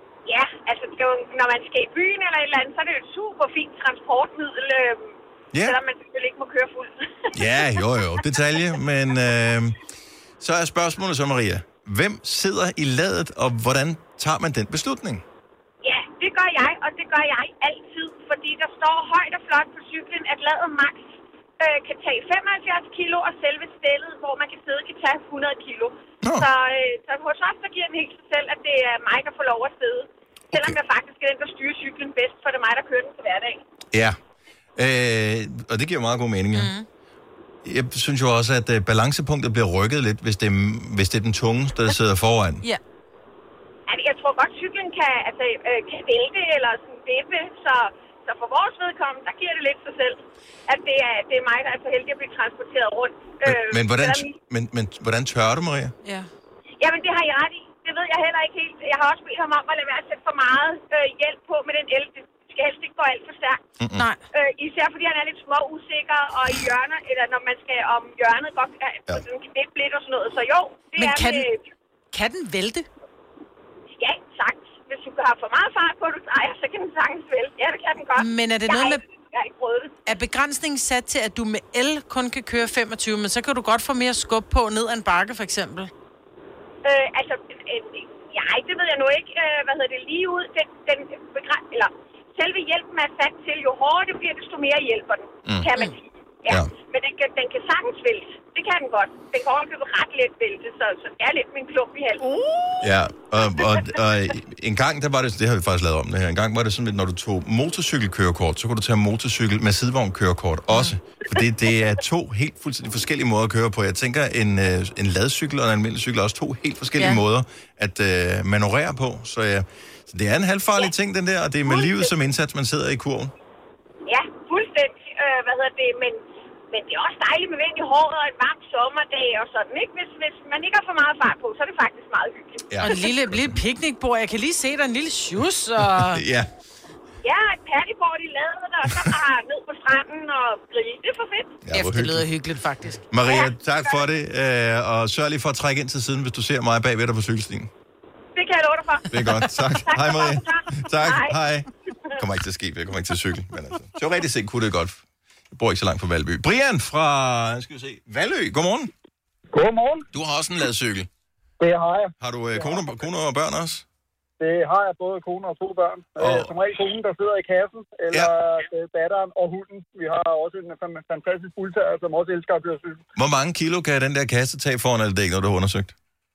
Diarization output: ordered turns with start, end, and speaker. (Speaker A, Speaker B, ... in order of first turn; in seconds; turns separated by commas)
Speaker A: 0.3-7.7, Speaker B: 5.5-5.8, Speaker B: 7.3-9.8, Speaker B: 10.4-15.2, Speaker A: 15.8-33.6, Speaker B: 26.2-26.5, Speaker B: 30.5-30.8, Speaker B: 33.9-34.2, Speaker B: 34.8-36.7, Speaker C: 36.5-36.9, Speaker B: 37.6-42.6, Speaker A: 43.9-54.4, Speaker B: 53.4-56.0, Speaker C: 56.0-56.3, Speaker A: 56.8-63.6, Speaker B: 63.8-64.1, Speaker C: 64.0-64.2, Speaker A: 64.3-71.6, Speaker C: 71.0-71.5, Speaker C: 72.1-72.9, Speaker A: 74.0-80.0, Speaker C: 78.2-79.0, Speaker C: 80.1-85.9, Speaker A: 86.8-102.6, Speaker B: 102.8-123.3, Speaker C: 110.7-111.0, Speaker A: 121.7-122.1, Speaker A: 124.1-132.9, Speaker B: 132.7-133.6, Speaker C: 132.8-136.2, Speaker B: 135.8-136.5, Speaker A: 137.2-141.6, Speaker B: 141.6-142.3, Speaker C: 141.7-143.0, Speaker B: 143.1-147.7, Speaker A: 143.2-144.0, Speaker A: 148.3-151.4, Speaker B: 149.1-158.9, Speaker D: 159.5-160.1, Speaker B: 160.1-161.1, Speaker D: 161.6-162.8, Speaker B: 162.2-163.9, Speaker D: 164.4-173.0, Speaker B: 166.2-166.5, Speaker B: 173.2-175.9